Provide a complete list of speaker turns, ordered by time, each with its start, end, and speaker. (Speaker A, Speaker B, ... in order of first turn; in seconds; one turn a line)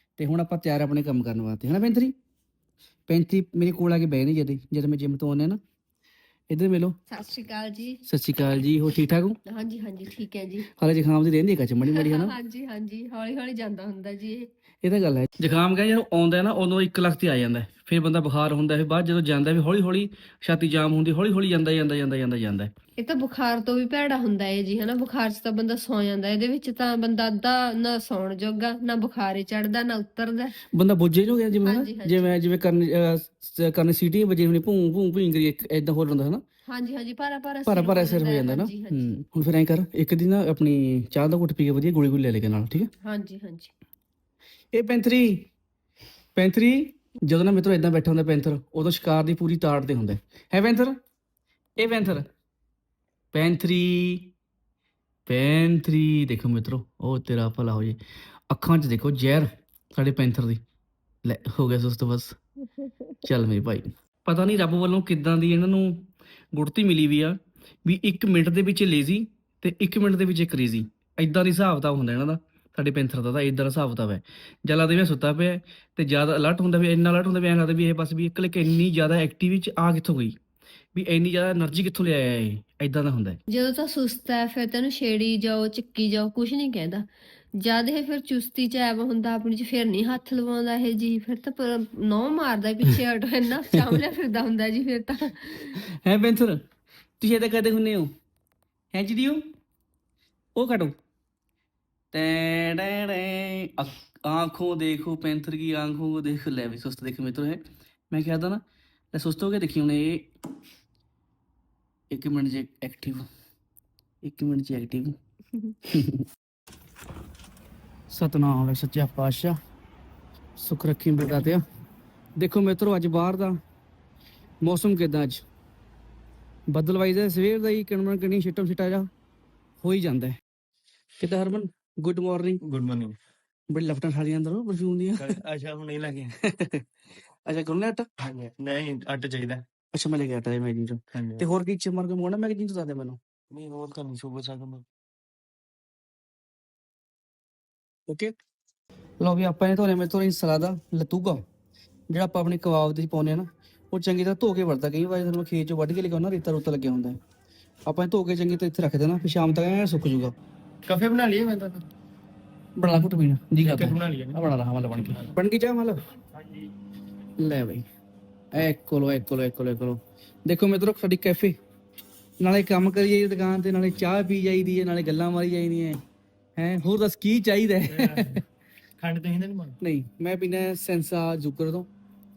Speaker A: 0.2-2.1
Speaker A: 3.1-5.6
Speaker A: 6.5-7.0
Speaker B: 7.1-8.0
Speaker A: 8.0-9.4
Speaker B: 9.4-10.7
Speaker A: 10.7-12.3
Speaker B: 11.8-14.5
Speaker A: 14.8-22.7
Speaker B: 23.0-30.6
Speaker A: 30.7-36.4
Speaker B: 31.6-32.6
Speaker B: 36.7-39.1
Speaker A: 37.7-42.9
Speaker B: 43.0-43.7
Speaker A: 44.7-45.5
Speaker A: 46.3-51.0
Speaker A: 51.8-52.3
Speaker A: 53.3-54.3
Speaker A: 55.3-58.0
Speaker A: 58.5-60.6
Speaker A: 61.2-62.4
Speaker B: 62.8-63.2
Speaker A: 63.2-80.4
Speaker A: 80.9-83.4
Speaker B: 83.5-87.0
Speaker B: 87.6-95.8
Speaker A: 93.7-94.0
Speaker A: 95.7-96.6
Speaker A: 97.2-98.1
Speaker A: 98.9-99.5
Speaker A: 100.5-101.0
Speaker A: 102.1-108.6
Speaker A: 109.1-110.3
Speaker A: 112.1-113.2
Speaker A: 114.2-115.2
Speaker A: 115.8-116.2
Speaker A: 118.1-119.6
Speaker A: 120.6-121.6
Speaker A: 122.4-123.6
Speaker A: 124.6-125.4
Speaker A: 126.7-129.1
Speaker A: 129.8-130.4
Speaker A: 131.2-132.6
Speaker C: 132.6-133.2
Speaker A: 133.7-135.4
Speaker C: 135.2-136.3
Speaker A: 136.4-136.8
Speaker A: 137.4-138.1
Speaker C: 138.2-139.6
Speaker A: 139.9-143.2
Speaker C: 141.1-141.4
Speaker C: 143.5-144.8
Speaker A: 148.1-148.3
Speaker A: 149.2-151.4
Speaker A: 152.1-157.2
Speaker A: 157.9-160.3
Speaker C: 160.8-161.8
Speaker A: 162.8-166.0
Speaker C: 163.6-164.4
Speaker A: 167.4-167.8
Speaker A: 168.5-171.6
Speaker A: 172.4-176.0
Speaker A: 176.6-178.4
Speaker C: 177.9-178.4
Speaker C: 179.0-179.8
Speaker A: 179.8-181.9